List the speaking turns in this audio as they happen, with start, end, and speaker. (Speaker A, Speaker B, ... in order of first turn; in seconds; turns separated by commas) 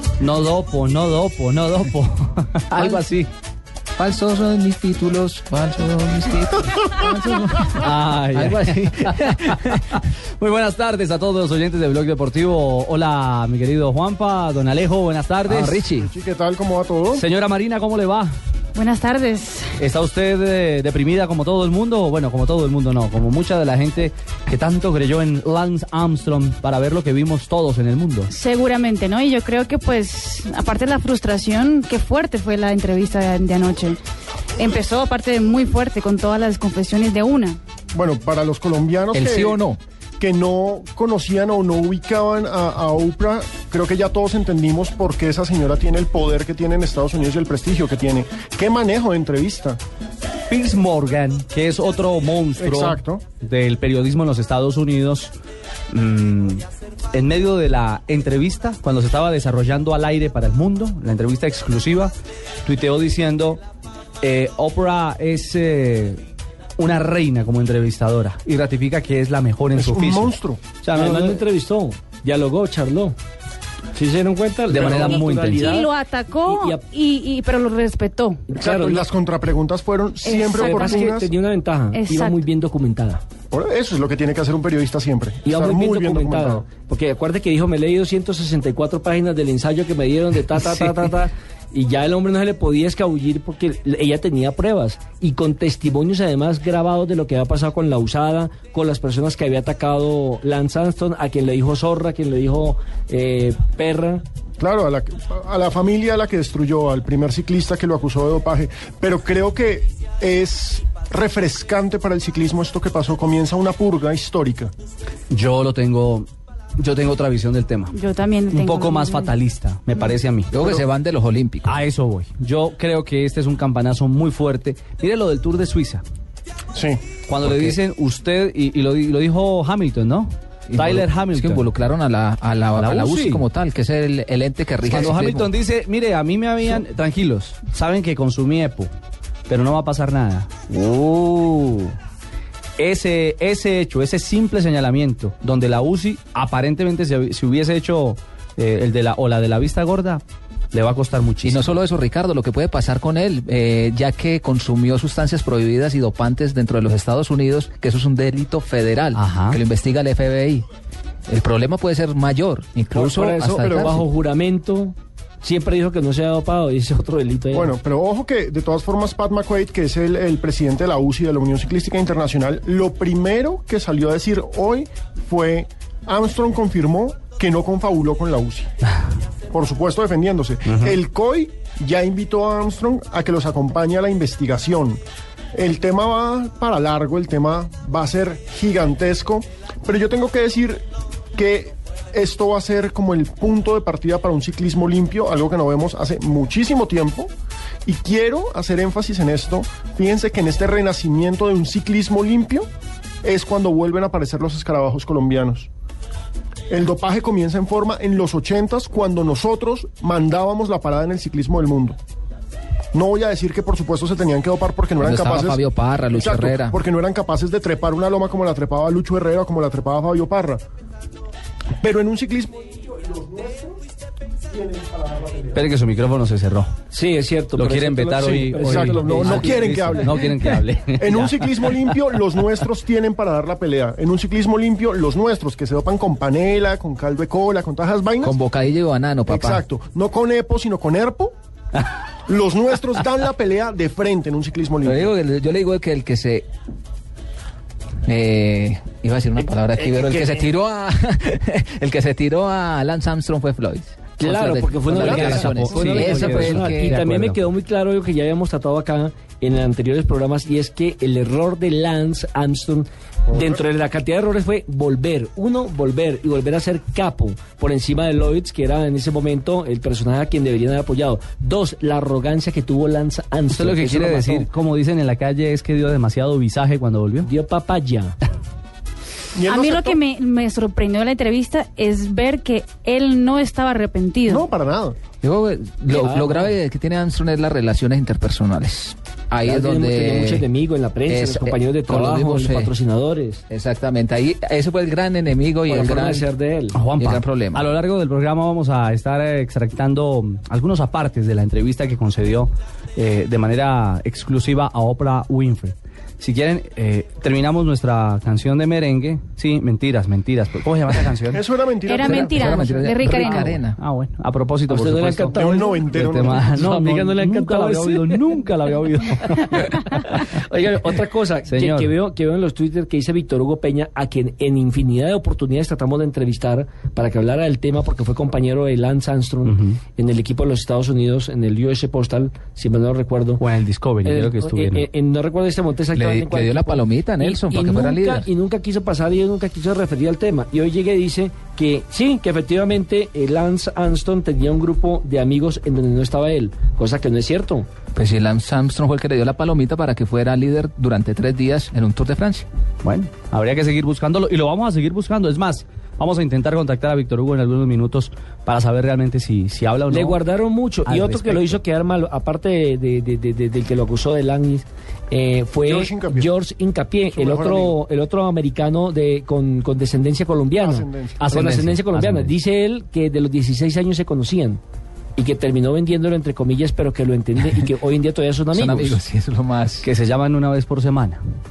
Speaker A: 0.2-3.3, Speaker B: 2.7-3.0, Speaker B: 4.0-9.8, Speaker A: 7.8-15.8, Speaker B: 15.4-16.1, Speaker C: 16.0-17.2, Speaker A: 17.1-18.3, Speaker D: 18.8-19.7, Speaker E: 18.9-19.4, Speaker A: 19.8-28.3, Speaker E: 28.3-33.9, Speaker D: 28.4-28.9, Speaker D: 29.6-30.0, Speaker D: 31.8-32.3, Speaker E: 34.6-37.4, Speaker D: 35.6-37.5, Speaker C: 37.9-39.6, Speaker B: 39.1-39.8, Speaker C: 40.2-49.8, Speaker A: 50.5-55.3, Speaker C: 52.6-53.2, Speaker A: 55.9-62.1, Speaker A: 62.6-63.6, Speaker A: 64.2-66.2, Speaker A: 66.8-71.4, Speaker C: 69.7-70.6, Speaker E: 71.0-73.2, Speaker E: 73.9-76.9, Speaker A: 74.7-75.8, Speaker D: 75.5-78.5, Speaker E: 78.5-79.0, Speaker C: 78.6-81.3, Speaker D: 80.2-81.1, Speaker E: 80.5-83.2, Speaker D: 81.9-82.5, Speaker C: 83.5-86.7, Speaker E: 85.4-104.2, Speaker C: 104.6-114.7, Speaker A: 115.3-117.9, Speaker D: 117.9-119.3, Speaker A: 118.5-120.5, Speaker B: 120.5-121.8, Speaker A: 121.7-126.0, Speaker C: 126.7-127.0, Speaker A: 127.3-131.7, Speaker B: 127.4-127.8, Speaker B: 130.7-135.5, Speaker A: 132.7-133.4, Speaker A: 134.8-138.9, Speaker A: 139.5-141.9, Speaker A: 142.8-151.7, Speaker B: 151.4-160.6, Speaker A: 159.1-159.6, Speaker B: 161.3-164.0, Speaker C: 163.5-164.1, Speaker E: 166.4-167.5, Speaker C: 167.5-178.7, Speaker C: 179.5-185.0, Speaker A: 180.7-180.9, Speaker C: 185.5-197.3, Speaker C: 197.8-202.7, Speaker C: 203.2-205.7, Speaker C: 206.7-212.0, Speaker C: 212.9-215.6, Speaker B: 215.0-216.8, Speaker C: 216.1-220.6, Speaker C: 221.8-223.8, Speaker C: 224.5-225.6, Speaker A: 225.5-226.7, Speaker E: 226.9-229.5, Speaker A: 227.5-231.7, Speaker C: 228.6-238.3, Speaker B: 238.2-239.6, Speaker C: 239.3-241.3, Speaker C: 242.3-245.1, Speaker B: 244.8-246.5, Speaker B: 248.0-257.1, Speaker E: 254.2-274.5, Speaker C: 254.9-255.8, Speaker A: 255.0-257.5, Speaker D: 255.0-255.8, Speaker C: 263.3-263.6, Speaker A: 273.5-277.3, Speaker E: 277.2-278.2, Speaker C: 279.3-280.0, Speaker E: 279.5-284.4, Speaker D: 279.9-281.7, Speaker D: 282.3-282.9, Speaker D: 284.1-284.3, Speaker C: 284.3-285.0, Speaker B: 285.2-290.5, Speaker E: 289.6-293.4, Speaker B: 291.1-292.7, Speaker B: 293.5-296.3, Speaker E: 295.7-296.7, Speaker A: 296.7-311.4, Speaker B: 297.0-297.7, Speaker C: 311.3-312.6, Speaker E: 311.9-313.5, Speaker D: 311.9-313.4, Speaker B: 312.0-313.8, Speaker A: 313.1-320.3, Speaker E: 314.7-315.9, Speaker C: 315.3-316.6, Speaker E: 316.6-318.3, Speaker E: 319.3-333.4, Speaker A: 321.5-321.9, Speaker A: 329.4-329.8, Speaker A: 333.4-334.9, Speaker E: 334.0-347.7, Speaker B: 335.9-338.3, Speaker B: 347.9-352.5, Speaker A: 352.8-360.2, Speaker E: 359.9-370.7, Speaker A: 360.8-361.6, Speaker C: 365.6-366.3, Speaker C: 367.1-367.8, Speaker C: 370.6-371.5, Speaker B: 371.2-372.4, Speaker E: 371.4-374.6, Speaker E: 375.2-378.6, Speaker B: 378.5-379.9, Speaker A: 379.8-381.2